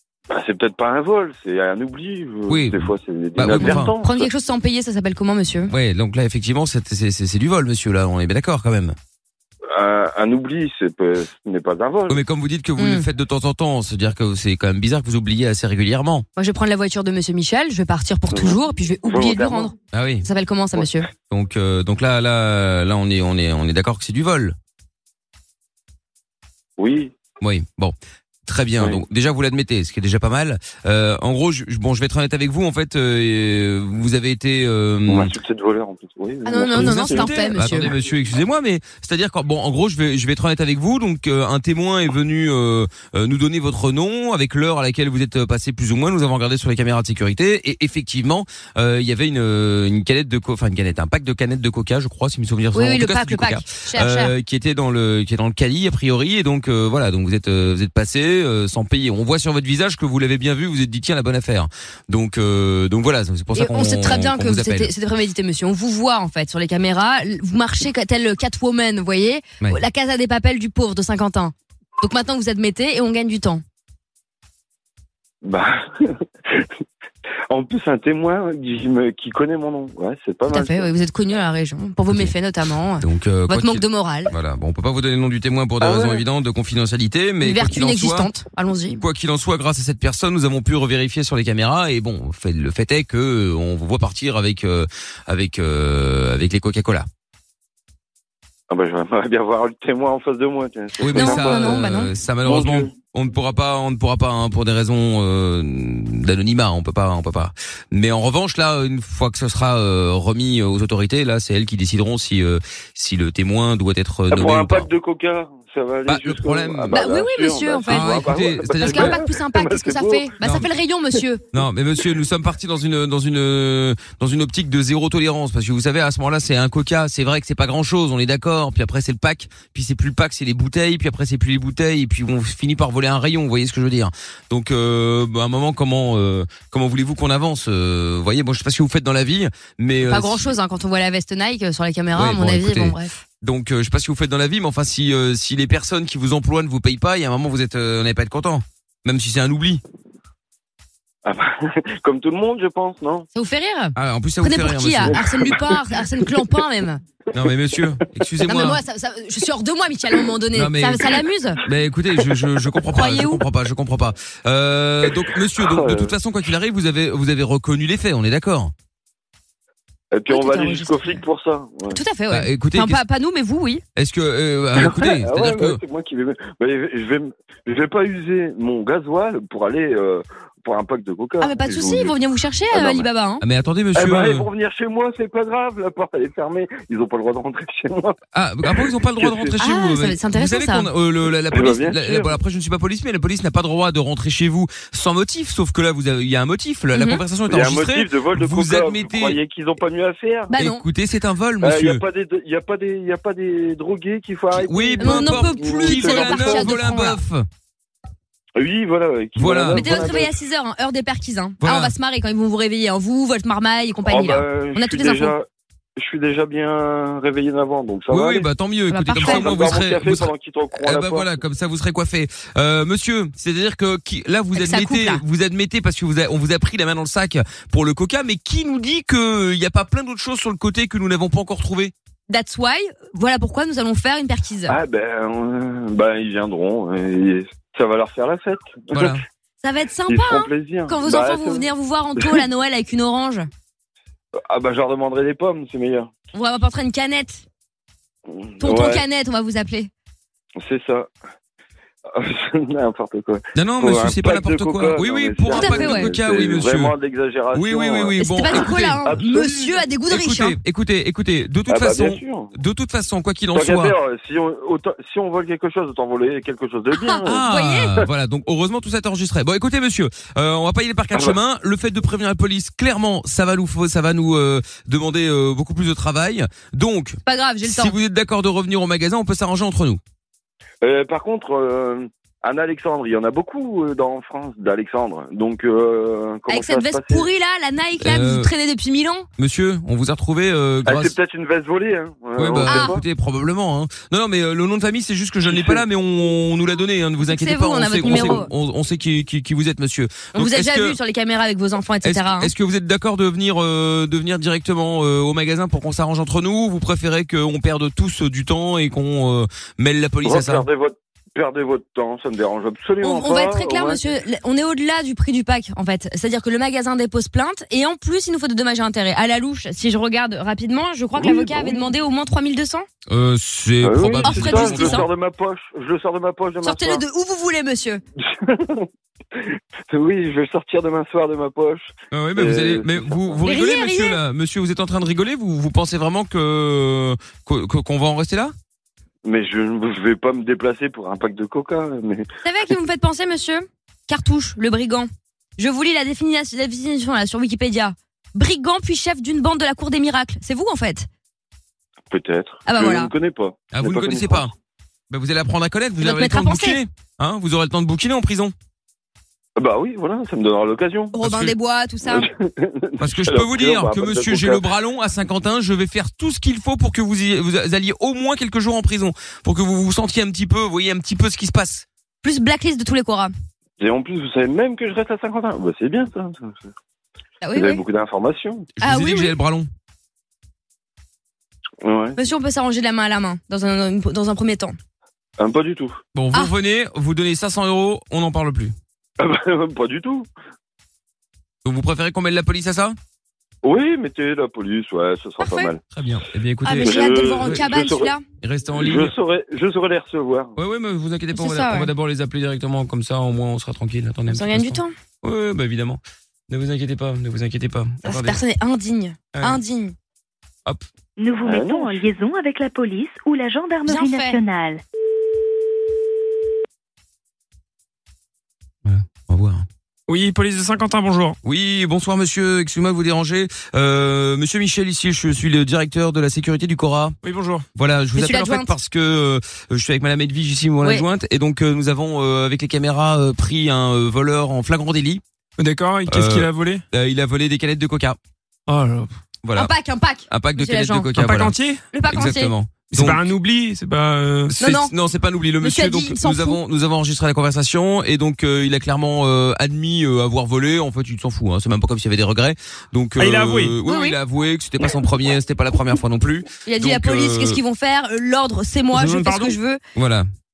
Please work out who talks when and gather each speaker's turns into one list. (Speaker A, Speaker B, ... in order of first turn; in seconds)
Speaker A: 0.3-4.3, 9.7-12.2, 18.3-19.7, 26.8-27.1, 35.1-37.5, 75.4-76.7, 77.5-80.9, 85.8-86.2, 98.7-101.8, 102.4-102.9, 114.3-120.3, 151.2-153.3, 155.1-156.3, 165.1-166.1, 170.1-172.0, 174.8-182.1, 182.7-183.1, 183.9-189.5, 191.5-192.3, 197.5-200.5, 201.6-206.7, 208.6-210.3, 214.1-218.5, 219.1-221.4, 234.7-239.2, 240.1-241.7, 244.3-246.1, 248.3-249.0, 250.6-251.1, 252.1-259.8, 261.7-262.5, 263.5-267.4, 280.8-287.3, 290.8-293.0, 295.4-295.8, 298.1-298.4, 310.2-314.0, 321.2-321.8, 323.8-327.0, 328.3-333.3, 339.2-342.2, 352.1-354.5, 359.6-361.2, 362.0-364.6, 373.8-376.7, 377.5-378.7, 381.8-382.2, 385.4-386.0, 389.2-390.3, 393.6-395.8, 396.7-398.1, 398.8-400.5, 411.4-412.0
Speaker B: 2.5-3.9, 5.7-9.0, 12.1-16.2, 19.9-20.3, 21.3-24.6, 27.4-27.9, 28.4-35.3, 36.5-64.9, 83.0-88.3, 88.9-97.1, 101.0-114.9, 116.1-117.0, 117.9-119.2, 120.4-120.7, 121.5-140.4, 142.1-149.8, 153.9-155.2, 157.3-158.8, 160.5-168.7, 172.3-173.0, 173.9-175.8, 183.4-184.5, 188.3-199.4, 200.5-202.0, 204.5-207.5, 209.3-210.1, 211.6-211.9, 218.1-231.9, 238.9-239.2, 253.5-256.9, 257.5-259.0, 260.1-264.0, 267.2-280.0, 288.0-288.5, 289.4-291.1, 292.4-301.0, 302.0-310.7, 323.1-325.1, 332.1-338.5, 353.7-354.5, 355.1-358.5, 361.2-361.5, 363.0-371.9, 378.8-379.7, 386.1-388.7, 391.6-393.0, 395.9-397.6, 398.4-399.1, 400.6-408.4, 418.8-419.6, 421.4-427.1, 427.7-435.2, 436.1-438.2, 439.4-439.7, 440.3-441.6, 442.1-443.3, 444.6-457.6, 459.9-460.3
Speaker C: 3.5-5.7, 12.8-13.1, 16.4-19.7, 20.2-21.1, 36.4-37.9, 52.7-54.3, 63.5-73.6, 80.5-84.3, 87.4-89.0, 101.1-102.1, 116.9-118.3, 118.8-121.4, 140.0-143.1, 153.3-157.0, 158.4-161.6, 162.9-163.4, 170.3-171.2, 171.9-173.8, 181.4-183.4, 189.6-190.9, 196.9-197.2, 200.5-200.8, 205.0-207.2, 209.7-215.3, 218.9-219.5, 224.5-225.2, 232.3-234.7, 239.6-243.5, 246.3-247.4, 248.6-249.9, 255.5-256.1, 258.2-260.6, 266.9-268.0, 277.2-277.9, 286.5-289.3, 292.6-292.9, 297.2-298.5, 300.3-302.5, 313.0-322.9, 324.2-325.1, 326.6-328.0, 333.4-334.2, 342.4-351.1, 352.6-353.1, 356.0-356.8, 361.1-362.3, 372.2-373.3, 377.4-377.8, 378.8-379.3, 382.1-384.8, 395.4-395.7, 396.6-398.2, 401.3-401.9, 404.3-404.9, 408.0-409.9, 413.9-414.4, 428.1-428.7, 439.6-441.1, 441.9-442.5, 444.6-444.9, 445.6-446.6, 453.9-454.2, 456.6-459.8
Speaker D: 409.3-409.6, 420.1-421.4, 427.2-427.6, 435.6-436.8, 438.7-439.1, 441.1-441.8, 442.9-444.7, 453.2-453.8, 458.9-459.6
Speaker E: 411.2-414.8